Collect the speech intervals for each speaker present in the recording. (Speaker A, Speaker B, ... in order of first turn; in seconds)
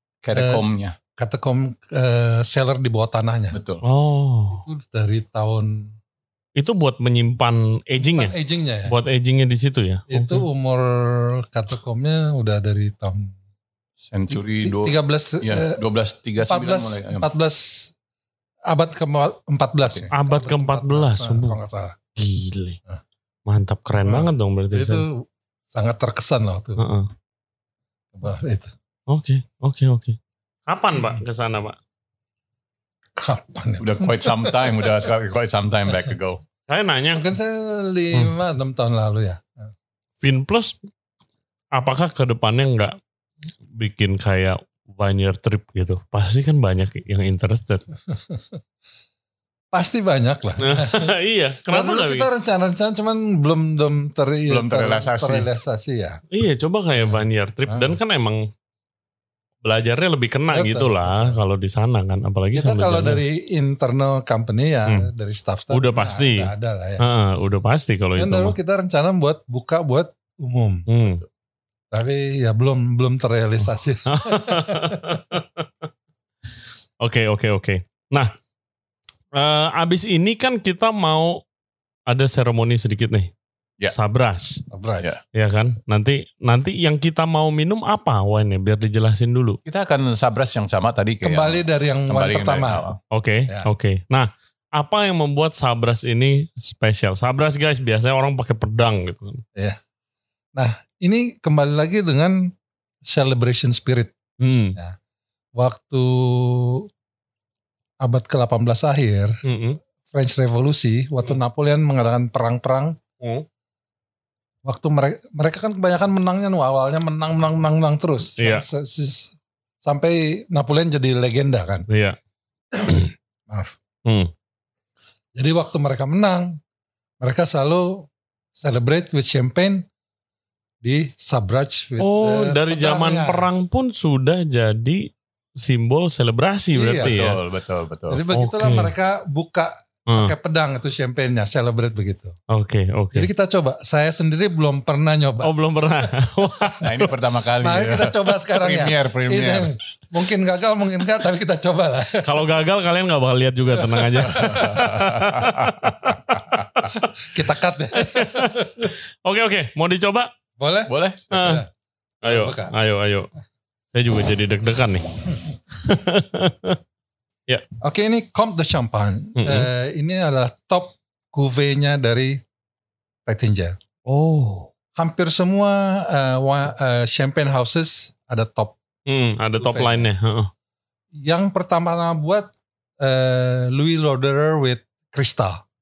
Speaker A: 0.2-1.0, 3.5-3.8, 14.1-17.3, 33.8-36.4, 54.5-55.5, 89.7-93.0, 137.0-138.2, 146.8-149.7, 154.2-156.9, 160.9-161.6
Speaker B: 0.3-0.6, 1.2-3.6, 4.5-6.0, 8.0-9.0, 10.1-13.4, 14.3-15.8, 16.4-17.9, 18.7-22.0, 24.0-26.8, 28.1-28.7, 33.2-35.1, 37.1-39.7, 48.1-48.6, 49.7-51.1, 51.7-56.2, 57.1-58.0, 60.5-61.4, 62.5-67.1, 68.2-70.9, 71.9-75.2, 84.7-85.1, 91.2-92.8, 100.5-102.5, 103.1-104.1, 105.6-106.9, 108.0-109.4, 110.1-113.0, 114.6-121.9, 122.7-123.8, 125.4-126.6, 127.2-129.9, 130.8-133.5, 136.8-137.2, 138.1-142.4, 143.1-145.5, 147.6-152.3, 153.7-155.0, 156.9-158.7, 160.6-161.7, 162.2-162.8, 167.8-172.4, 173.3-173.8, 175.0-178.8, 179.6-180.1, 181.1-185.6
Speaker C: 3.8-4.7, 6.6-8.3, 8.9-10.4, 20.1-21.6, 22.2-22.8, 23.5-25.1, 26.8-27.1, 29.1-31.8, 36.7-37.3, 40.2-40.8, 41.7-43.0, 43.7-47.9, 50.6-52.3, 56.3-58.5, 59.6-63.2, 65.7-68.6, 70.9-71.2, 74.1-75.7, 77.0-78.3, 79.3-81.4, 82.1-83.3, 83.9-84.6, 85.3-89.6, 93.1-99.4, 104.4-104.8, 109.4-109.8, 113.2-113.5, 118.4-118.7, 121.9-122.2, 122.9-123.1, 124.1-124.3, 132.0-137.4, 138.3-138.9, 142.5-143.3, 145.4-147.0, 152.2-157.0, 157.9-160.3, 161.3-161.6, 162.2-163.3, 163.9-166.8, 169.4-169.7, 174.1-174.7, 179.1-180.5